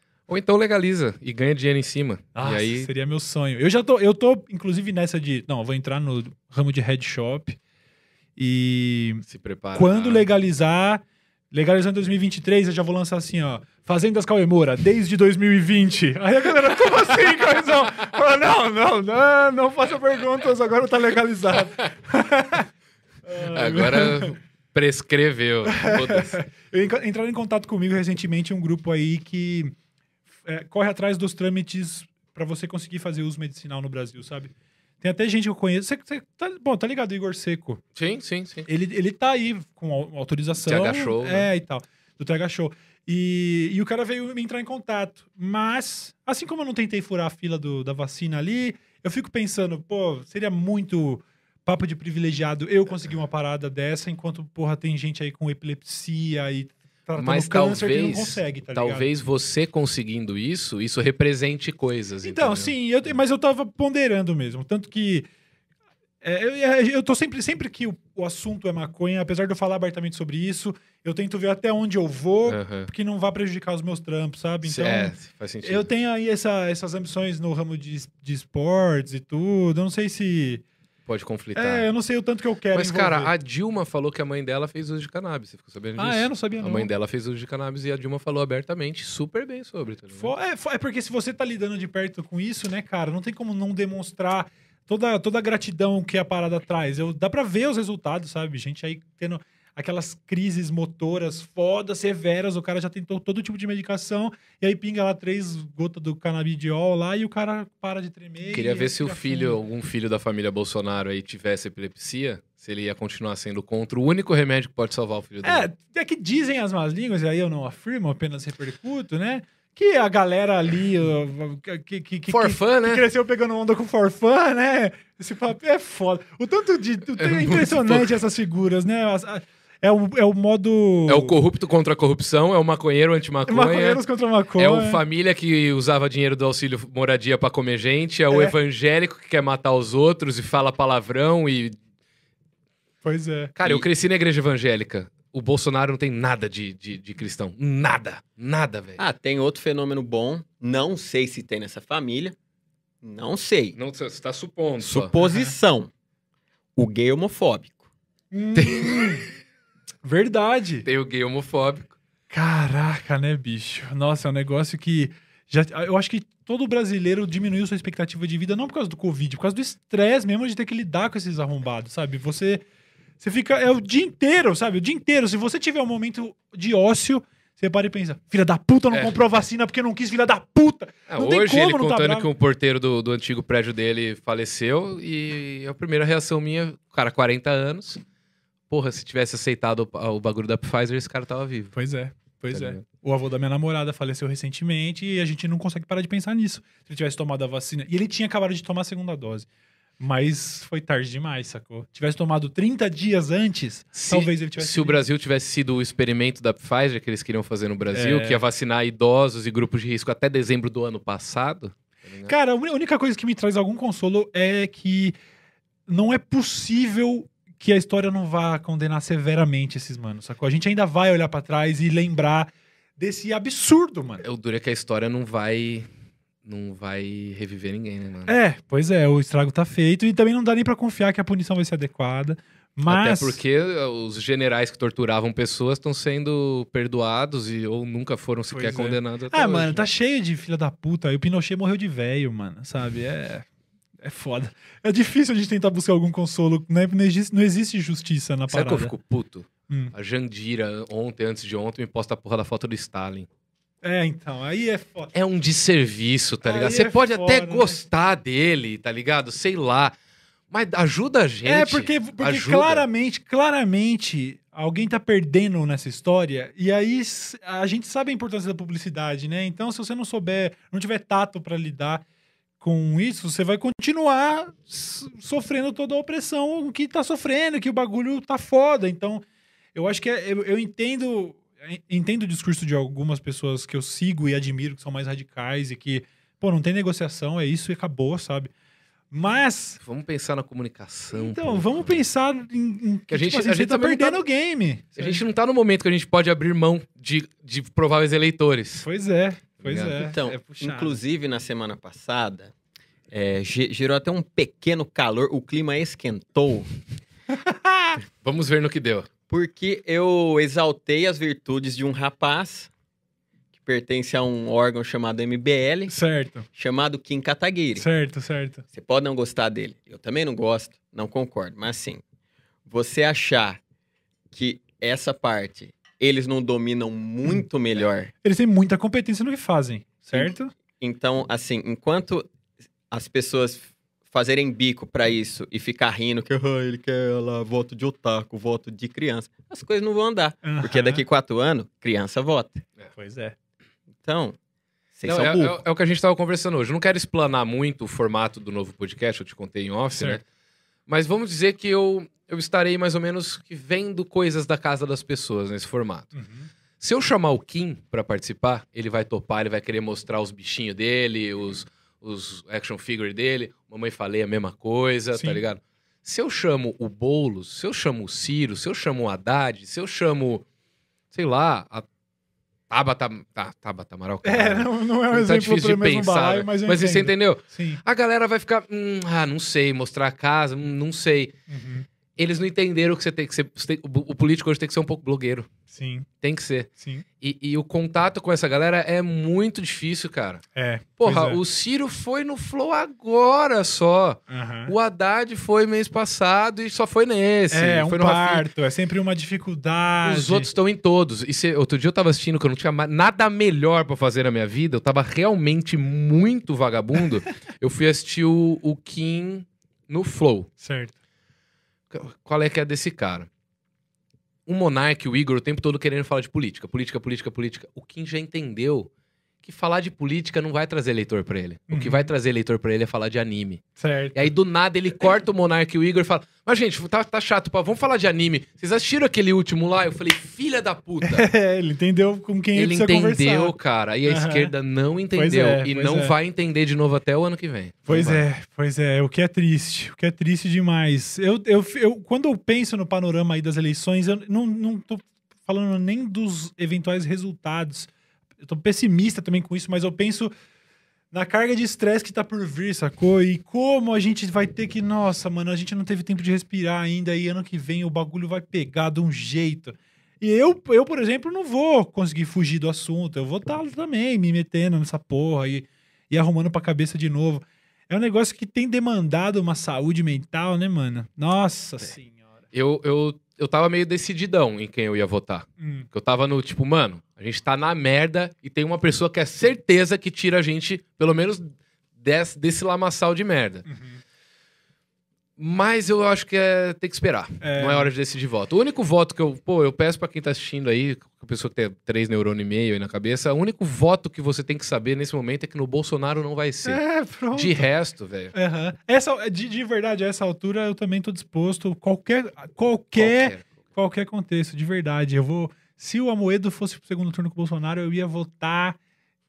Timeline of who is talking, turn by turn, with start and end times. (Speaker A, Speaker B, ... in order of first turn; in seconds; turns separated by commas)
Speaker A: 0.3-2.9, Speaker B: 2.4-7.6, Speaker B: 8.4-9.2, Speaker A: 9.2-10.3, Speaker B: 9.7-22.7, Speaker B: 23.2-24.3, Speaker A: 23.4-26.4, Speaker B: 25.7-29.7, Speaker B: 30.4-37.8, Speaker A: 38.0-38.7, Speaker B: 38.7-59.1, Speaker A: 40.7-41.5, Speaker A: 57.2-62.7, Speaker B: 62.2-65.3, Speaker B: 66.2-80.6, Speaker A: 72.5-72.9, Speaker A: 74.6-75.9, Speaker A: 81.0-81.9, Speaker B: 81.5-83.3, Speaker A: 82.7-90.3, Speaker B: 86.0-86.9, Speaker B: 90.2-109.6, Speaker A: 108.5-115.7, Speaker B: 115.4-131.4, Speaker A: 122.3-123.0, Speaker A: 127.2-128.1, Speaker A: 131.1-134.0, Speaker B: 133.5-135.0, Speaker A: 134.6-141.8, Speaker B: 138.3-138.6, Speaker B: 143.0-143.5, Speaker A: 143.6-149.0, Speaker C: 149.0-152.4, Speaker C: 153.0-153.8, Speaker A: 153.7-155.1, Speaker C: 154.8-155.9, Speaker B: 155.2-155.5, Speaker C: 156.8-157.8, Speaker B: 158.3-159.2, Speaker A: 158.6-159.2, Speaker B: 160.0-160.9, Speaker A: 160.8-161.9, Speaker B: 162.3-172.6, Speaker B: 173.2-182.3, Speaker A: 181.1-188.0, Speaker A: 188.7-191.7, Speaker B: 191.7-199.5, Speaker A: 192.5-192.8, Speaker B: 200.0-205.0, Speaker A: 203.9-212.3, Speaker B: 207.9-208.4, Speaker B: 212.3-215.1, Speaker B: 215.9-224.2, Speaker A: 224.2-225.9, Speaker A: 226.4-228.3, Speaker B: 228.3-233.4, Speaker A: 232.9-239.9, Speaker B: 238.5-243.4, Speaker B: 244.0-248.9, Speaker A: 248.5-253.3, Speaker B: 249.7-249.9, Speaker B: 253.8-255.1, Speaker A: 255.1-259.9, Speaker B: 256.4-257.8, Speaker A: 260.5-262.9, Speaker B: 261.4-272.0, Speaker B: 272.6-279.2, Speaker B: 279.7-288.5, Speaker B: 289.1-289.8, Speaker A: 289.8-292.0, Speaker B: 291.1-295.2, Speaker A: 293.1-294.2, Speaker A: 295.0-298.9, Speaker B: 298.8-301.0, Speaker A: 299.6-300.0, Speaker C: 300.0-302.5, Speaker C: 303.1-306.7, Speaker B: 307.3-308.0, Speaker A: 308.2-309.1, Speaker C: 309.3-312.7, Speaker C: 313.6-315.9, Speaker B: 315.9-316.5, Speaker C: 316.6-317.9, Speaker B: 317.8-318.6, Speaker C: 318.7-322.0, Speaker C: 322.7-323.6, Speaker C: 324.3-328.1, Speaker B: 328.2-330.5, Speaker C: 330.1-332.3, Speaker C: 332.9-342.6, Speaker B: 340.4-341.0, Speaker B: 342.9-343.3, Speaker C: 344.1-344.4, Speaker C: 344.9-345.6, Speaker A: 345.1-350.2, Speaker B: 349.9-350.2, Speaker A: 350.9-356.1, Speaker B: 356.1-356.5, Speaker A: 356.8-370.4, Speaker B: 365.1-365.4, Speaker A: 371.1-371.9, Speaker A: 372.7-381.3, Speaker B: 374.2-377.8, Speaker B: 381.5-381.9, Speaker A: 382.2-385.5, Speaker B: 385.7-386.1, Speaker A: 386.2-386.7, Speaker B: 386.8-387.1, Speaker A: 387.2-390.4, Speaker B: 390.6-391.4, Speaker A: 391.0-398.4, Speaker B: 394.3-394.7, Speaker B: 397.5-400.5, Speaker A: 400.0-410.5, Speaker B: 410.6-410.9, Speaker A: 411.9-413.3, Speaker A: 414.4-418.9, Speaker A: 419.4-423.6, Speaker B: 421.7-422.1, Speaker B: 423.8-424.3, Speaker A: 424.1-431.3, Speaker B: 431.0-433.6, Speaker A: 432.6-438.2, Speaker B: 434.1-434.5, Speaker B: 435.1-436.1, Speaker B: 437.9-447.9, Speaker B: 448.4-450.3, Speaker B: 451.1-472.3, Speaker A: 472.5-483.6, Speaker B: 475.6-475.9, Speaker B: 483.7-484.0, Speaker A: 485.4-496.8, Speaker B: 487.4-487.9, Speaker B: 496.7-497.7, Speaker A: 497.3-498.3, Speaker B: 498.3-508.8, Speaker A: 502.9-503.5